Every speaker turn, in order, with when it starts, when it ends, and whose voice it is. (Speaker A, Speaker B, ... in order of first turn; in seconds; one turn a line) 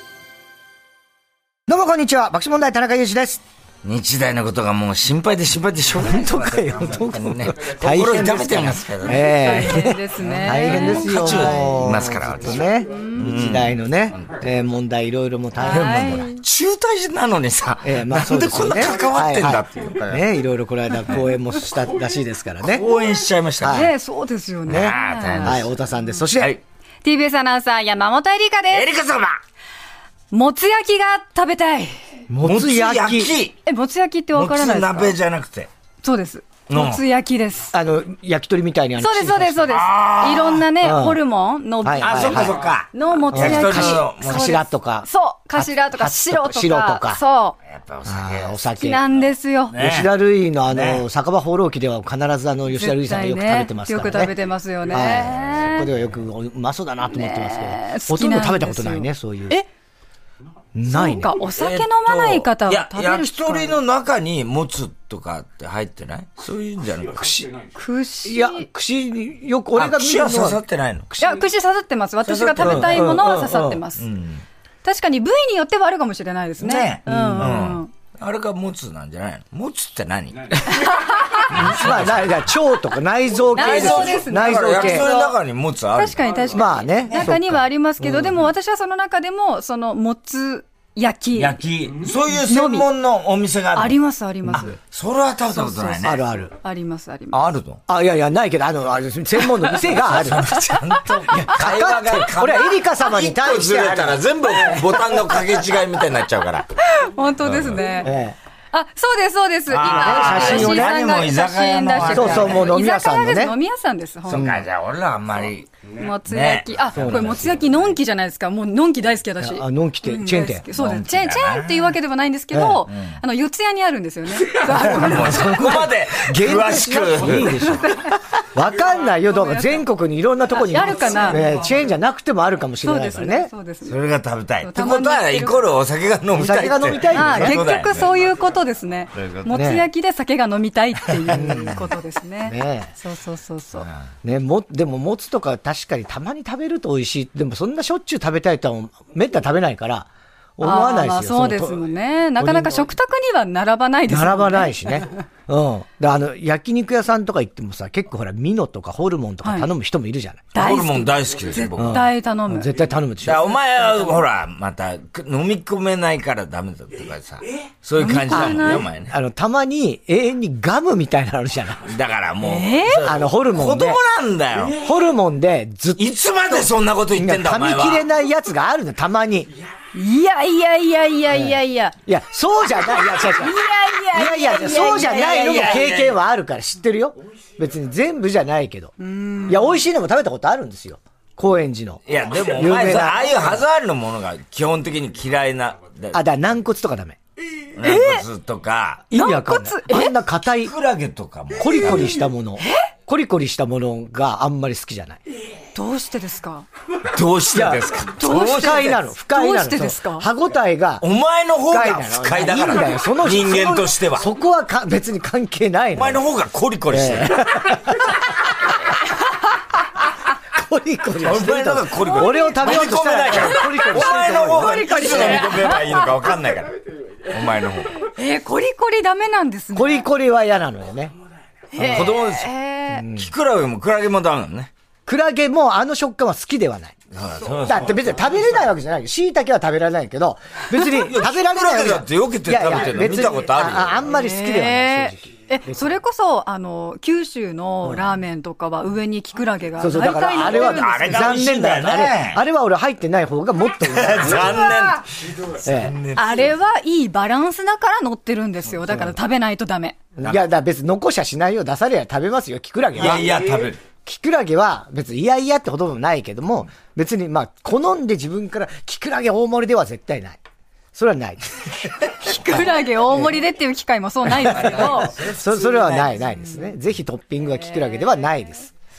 Speaker A: 1.7-3.4
Speaker B: 3.8-9.3
Speaker A: 5.9-16.3
Speaker C: 9.2-11.8
Speaker B: 10.2-14.4
Speaker C: 12.9-13.3
Speaker C: 15.6-16.4
Speaker B: 16.4-20.2
Speaker A: 17.8-22.9
Speaker B: 22.6-23.9
Speaker A: 23.6-23.9
Speaker C: 23.7-25.6
Speaker B: 24.7-25.7
Speaker A: 24.7-26.5
Speaker C: 27.0-28.9
Speaker B: 28.7-29.4
Speaker C: 30.3-31.9
Speaker A: 32.3-33.3
Speaker B: 32.4-33.6
Speaker C: 33.6-35.1
Speaker B: 34.3-35.7
Speaker C: 36.0-37.7
Speaker B: 36.7-37.0
Speaker A: 37.7-39.7
Speaker C: 39.0-47.6
Speaker B: 39.7-40.6
Speaker A: 40.8-41.2
Speaker A: 41.8-42.6
Speaker B: 42.0-44.6
Speaker A: 43.3-47.2
Speaker B: 47.7-48.6
Speaker A: 48.0-49.0
Speaker C: 48.8-49.7
Speaker B: 49.7-50.1
Speaker A: 49.7-54.3
Speaker B: 50.7-51.0
Speaker C: 52.7-55.9
Speaker A: 54.9-59.6
Speaker C: 57.1-59.7
Speaker A: 60.7-61.3
Speaker C: 60.9-63.7
Speaker B: 61.5-67.5
Speaker A: 67.2-67.5
Speaker C: 67.8-68.7
Speaker A: 68.2-71.4
Speaker B: 69.8-71.1
Speaker C: 71.2-74.0
Speaker B: 72.2-73.1
Speaker A: 72.6-73.8
Speaker B: 74.0-74.4
Speaker C: 74.8-77.9
Speaker B: 76.6-80.9
Speaker A: 77.1-77.6
Speaker C: 80.7-81.7
Speaker B: 81.4-82.4
Speaker A: 81.5-85.1
Speaker C: 83.5-85.3
Speaker B: 83.5-86.2
Speaker C: 85.9-91.6
Speaker A: 86.5-88.4
Speaker B: 91.3-94.0
Speaker C: 92.3-92.9
Speaker C: 93.7-94.8
Speaker B: 94.5-96.2
Speaker C: 95.5-97.4
Speaker A: 96.0-96.5
Speaker B: 97.3-97.8
Speaker A: 97.9-105.8
Speaker B: 99.8-106.7
Speaker C: 106.8-108.1
Speaker B: 107.4-107.8
Speaker A: 108.0-108.4
Speaker C: 108.7-114.5
Speaker B: 109.7-112.7
Speaker A: 109.9-111.0
Speaker A: 112.0-113.5
Speaker B: 114.3-117.8
Speaker A: 114.3-114.6
Speaker C: 115.9-125.4
Speaker A: 116.9-117.5
Speaker A: 119.4-120.6
Speaker B: 120.7-121.9
Speaker A: 122.5-122.8
Speaker B: 122.9-123.2
Speaker B: 124.4-127.8
Speaker A: 124.7-127.9
Speaker C: 127.5-128.2
Speaker A: 128.5-133.5
Speaker C: 129.3-129.8
Speaker C: 130.5-131.5
Speaker C: 132.8-134.0
Speaker B: 133.9-138.1
Speaker C: 134.6-135.7
Speaker A: 136.3-137.6
Speaker C: 137.1-143.9
Speaker B: 139.1-139.5
Speaker A: 139.5-139.9
Speaker A: 141.3-141.9
Speaker A: 142.4-142.9
Speaker A: 144.2-151.8
Speaker C: 150.6-155.1
Speaker A: 152.4-152.9
Speaker A: 154.1-160.5
Speaker C: 159.4-159.7
Speaker B: 160.5-162.0
Speaker C: 160.5-162.7
Speaker A: 161.8-163.5
Speaker B: 163.2-169.1
Speaker C: 168.0-168.9
Speaker A: 168.3-171.9
Speaker B: 171.8-174.8
Speaker C: 172.4-173.1
Speaker A: 173.0-174.0
Speaker A: 174.7-179.5
Speaker B: 176.0-178.0
Speaker C: 179.9-181.9
Speaker A: 181.3-188.9
Speaker C: 182.9-185.8
Speaker B: 184.8-186.2
Speaker C: 189.0-189.8
Speaker A: 189.4-193.6
Speaker B: 192.1-196.2
Speaker A: 196.1-197.2
Speaker B: 197.8-199.0
Speaker C: 197.8-198.2
Speaker A: 199.1-200.7
Speaker C: 199.1-200.1
Speaker B: 200.5-202.2
Speaker A: 201.5-205.2
Speaker C: 202.6-202.8
Speaker C: 205.7-206.7
Speaker B: 207.1-209.0
Speaker A: 207.5-211.1
Speaker C: 208.2-210.3
Speaker B: 211.0-214.2
Speaker A: 211.7-216.2
Speaker B: 215.9-217.6
Speaker A: 216.9-218.9
Speaker A: 220.5-225.4
Speaker B: 221.2-228.0
Speaker C: 222.1-222.7
Speaker C: 223.3-226.3
Speaker C: 228.0-230.1
Speaker A: 229.7-231.1
Speaker C: 231.7-233.0
Speaker B: 231.8-232.5
Speaker A: 231.8-232.1
Speaker A: 232.9-233.3
Speaker B: 233.2-234.7
Speaker A: 235.1-237.0
Speaker B: 237.1-238.3
Speaker A: 237.6-245.8
Speaker B: 240.9-244.1
Speaker C: 244.1-251.0
Speaker A: 249.8-254.7
Speaker B: 250.3-252.4
Speaker B: 253.8-256.5
Speaker C: 254.4-255.0
Speaker A: 255.6-255.9
Speaker C: 256.1-260.0
Speaker A: 260.2-263.4
Speaker B: 262.9-263.8
Speaker A: 264.0-270.4
Speaker A: 270.9-273.3
Speaker C: 272.2-275.2
Speaker B: 274.4-276.2
Speaker A: 274.5-278.7
Speaker C: 277.6-278.1